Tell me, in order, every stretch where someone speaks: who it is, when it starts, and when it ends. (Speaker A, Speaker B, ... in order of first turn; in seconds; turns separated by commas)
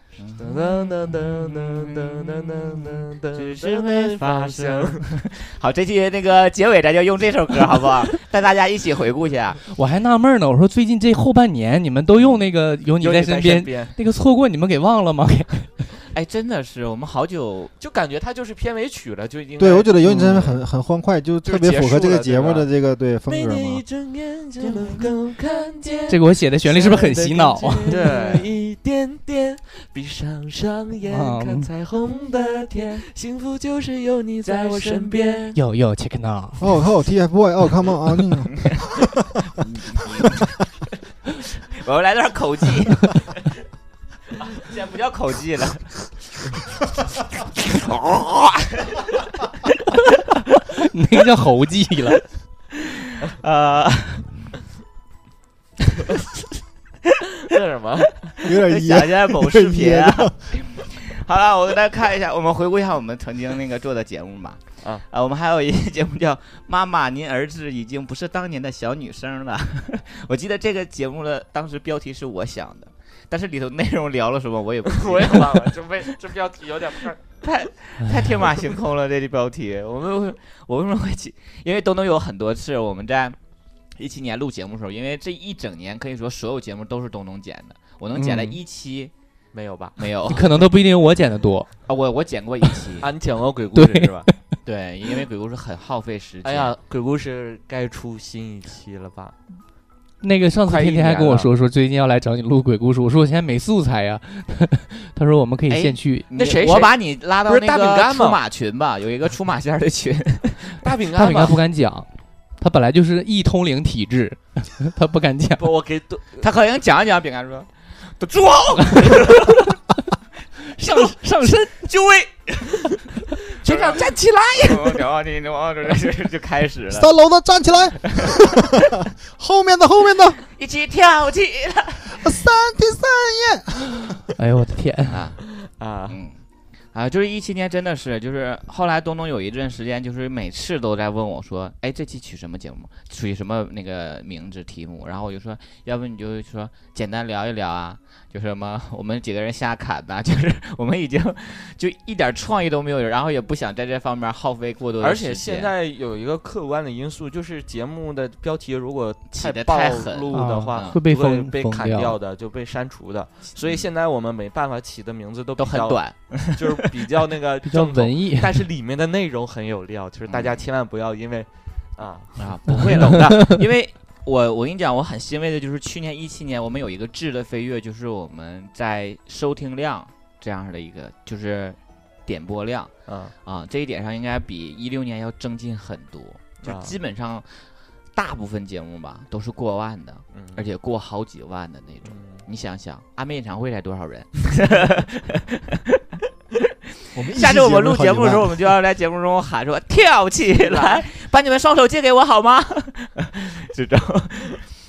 Speaker A: 0.2-2.2, Speaker B: 0.4-5.0, Speaker A: 2.9-9.6, Speaker C: 9.7-15.9, Speaker A: 12.2-12.4, Speaker B: 13.0-13.9, Speaker A: 16.1-17.7, Speaker B: 17.8-20.6, Speaker D: 19.6-23.8, Speaker B: 21.4-22.7, Speaker B: 23.3-35.6, Speaker C: 26.1-28.2, Speaker A: 27.9-28.2, Speaker C: 31.1-31.7, Speaker A: 34.4-35.4, Speaker C: 35.5-36.6, Speaker D: 36.6-38.8, Speaker A: 39.6-40.5, Speaker A: 41.8-43.2, Speaker A: 44.4-45.9, Speaker A: 47.7-50.0, Speaker C: 50.8-52.2, Speaker A: 53.1-54.3, Speaker B: 57.5-58.3, Speaker D: 58.4-60.5, Speaker A: 58.4-75.7, Speaker B: 74.9-77.2, Speaker A: 77.4-83.4, Speaker A: 84.0-89.1, Speaker C: 88.2-88.6, Speaker B: 89.5-90.0, Speaker A: 90.0-90.5, Speaker C: 90.3-91.7, Speaker A: 91.9-93.1, Speaker B: 93.0-94.3, Speaker C: 93.8-94.3, Speaker A: 94.7-96.8, Speaker B: 96.4-99.4, Speaker C: 100.2-106.3, Speaker B: 100.7-101.5, Speaker A: 105.7-110.8, Speaker B: 106.3-108.4, Speaker B: 110.8-111.6, Speaker C: 111.2-115.7, Speaker B: 115.6-116.5, Speaker A: 116.4-119.7, Speaker C: 120.7-121.9, Speaker A: 121.8-122.7, Speaker B: 123.6-125.0, Speaker A: 123.6-127.1, Speaker D: 126.9-130.4, Speaker A: 130.5-132.2, Speaker D: 132.1-134.1, Speaker C: 134.4-135.3, Speaker A: 135.1-135.4, Speaker B: 135.6-136.2, Speaker A: 136.1-136.4, Speaker A: 136.9-155.7, Speaker B: 155.0-172.8, Speaker A: 159.3-161.0, Speaker C: 160.3-162.2, Speaker A: 163.6-163.9, Speaker A: 165.6-166.8, Speaker C: 167.6-168.6, Speaker A: 170.3-170.6, Speaker A: 172.4-182.9, Speaker C: 172.7-173.6, Speaker B: 183.1-183.3, Speaker A: 183.4-195.4, Speaker B: 186.6-186.9, Speaker B: 190.3-190.7, Speaker B: 192.1-192.4, Speaker D: 197.2-198.6, Speaker A: 197.3-204.6, Speaker B: 200.6-201.0